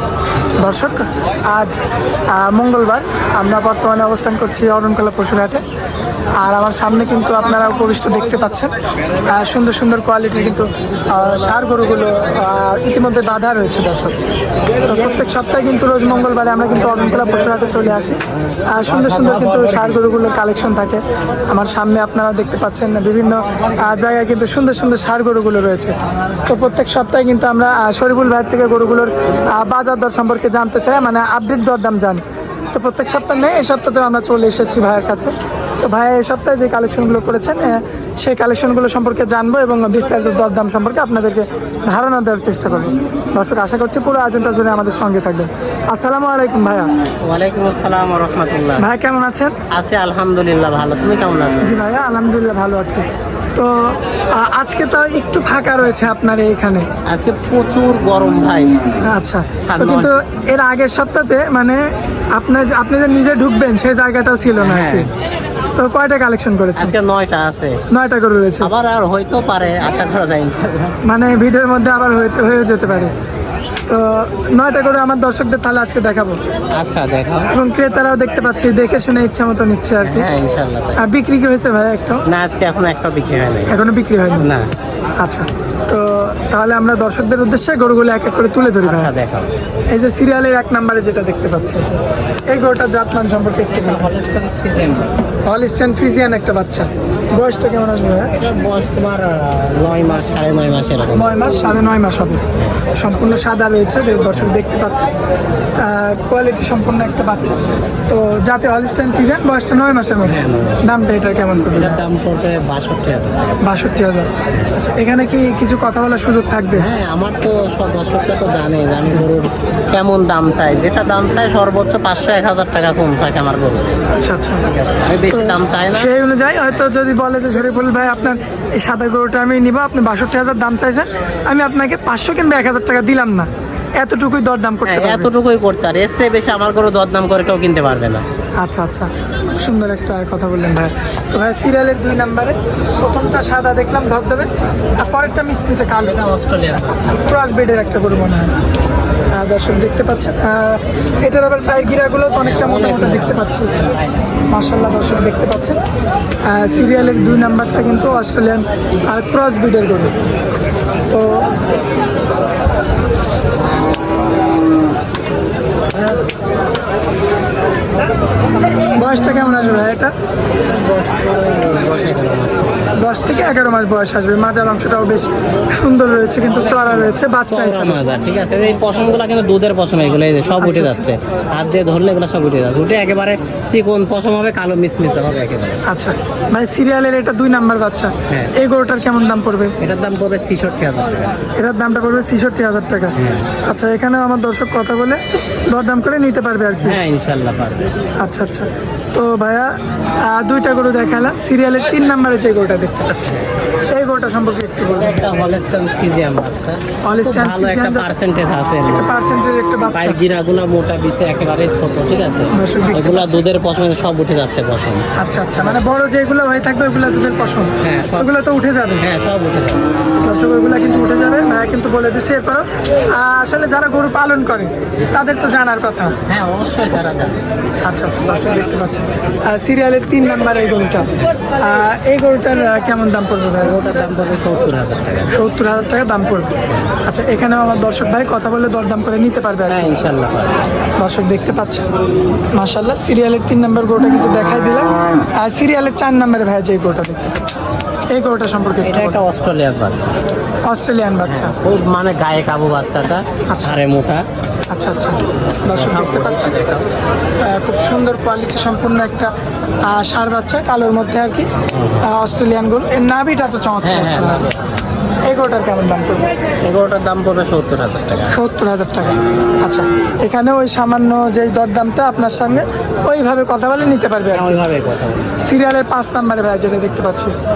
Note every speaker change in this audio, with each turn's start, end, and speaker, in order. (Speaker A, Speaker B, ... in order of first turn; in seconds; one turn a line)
Speaker A: 0.6-1.8
Speaker A: 2.3-5.6
Speaker A: 6.4-8.7
Speaker A: 9.3-14.2
Speaker A: 14.8-46.9
Speaker B: 47.2-48.9
Speaker A: 48.8-49.6
Speaker B: 49.7-51.8
Speaker A: 51.6-56.9
Speaker B: 57.1-58.8
Speaker A: 59.1-65.1
Speaker B: 59.7-60.1
Speaker B: 64.6-65.1
Speaker A: 65.8-66.9
Speaker B: 66.8-67.8
Speaker A: 67.9-68.7
Speaker B: 68.6-71.0
Speaker A: 71.0-73.2
Speaker A: 73.9-76.4
Speaker B: 76.7-77.5
Speaker A: 77.5-80.3
Speaker B: 80.0-81.0
Speaker A: 81.0-82.2
Speaker B: 82.3-83.8
Speaker A: 83.7-84.5
Speaker B: 84.3-84.7
Speaker A: 85.2-89.1
Speaker B: 88.8-89.5
Speaker A: 89.9-91.9
Speaker A: 92.5-94.1
Speaker B: 93.7-95.2
Speaker A: 95.5-98.3
Speaker B: 98.3-101.4
Speaker A: 101.1-102.4
Speaker A: 102.9-105.1
Speaker A: 105.8-112.0
Speaker B: 110.2-110.9
Speaker B: 111.8-113.6
Speaker A: 113.6-116.9
Speaker B: 114.5-114.8
Speaker B: 116.7-124.0
Speaker A: 124.1-124.7
Speaker B: 124.7-126.1
Speaker A: 125.3-135.3
Speaker B: 134.8-138.2
Speaker A: 138.6-146.2
Speaker B: 145.9-147.2
Speaker A: 147.2-148.5
Speaker A: 149.3-153.7
Speaker B: 152.4-154.2
Speaker A: 154.5-155.8
Speaker A: 156.4-160.1
Speaker A: 161.1-161.5
Speaker A: 168.9-170.1
Speaker B: 170.7-173.0
Speaker A: 173.0-178.0
Speaker B: 177.5-185.8
Speaker A: 180.6-181.1
Speaker A: 185.9-189.8
Speaker B: 188.3-188.5
Speaker B: 189.8-191.4
Speaker A: 191.6-197.0
Speaker B: 193.2-193.5
Speaker B: 196.8-197.9
Speaker A: 198.2-203.3
Speaker B: 203.2-203.5
Speaker A: 203.9-205.2
Speaker B: 204.9-209.2
Speaker A: 207.0-208.1
Speaker A: 208.9-210.2
Speaker B: 209.9-215.9
Speaker A: 212.5-213.4
Speaker A: 215.2-219.0
Speaker B: 217.8-218.3
Speaker B: 219.0-219.9
Speaker A: 220.2-226.2
Speaker B: 226.3-227.4
Speaker A: 227.8-233.8
Speaker B: 233.6-235.3
Speaker A: 235.3-236.5
Speaker A: 237.0-239.9
Speaker B: 239.7-240.6
Speaker A: 241.0-241.8
Speaker A: 242.5-247.6
Speaker A: 248.1-249.3
Speaker B: 248.8-250.2
Speaker A: 250.7-251.6
Speaker B: 251.3-254.2
Speaker A: 254.7-256.6
Speaker B: 255.6-256.9
Speaker A: 257.4-259.3
Speaker A: 259.9-261.5
Speaker B: 261.7-262.1
Speaker A: 262.0-264.4
Speaker B: 263.8-264.9
Speaker A: 265.3-266.3
Speaker B: 266.6-268.4
Speaker A: 268.3-274.5
Speaker B: 274.3-275.4
Speaker A: 275.4-277.3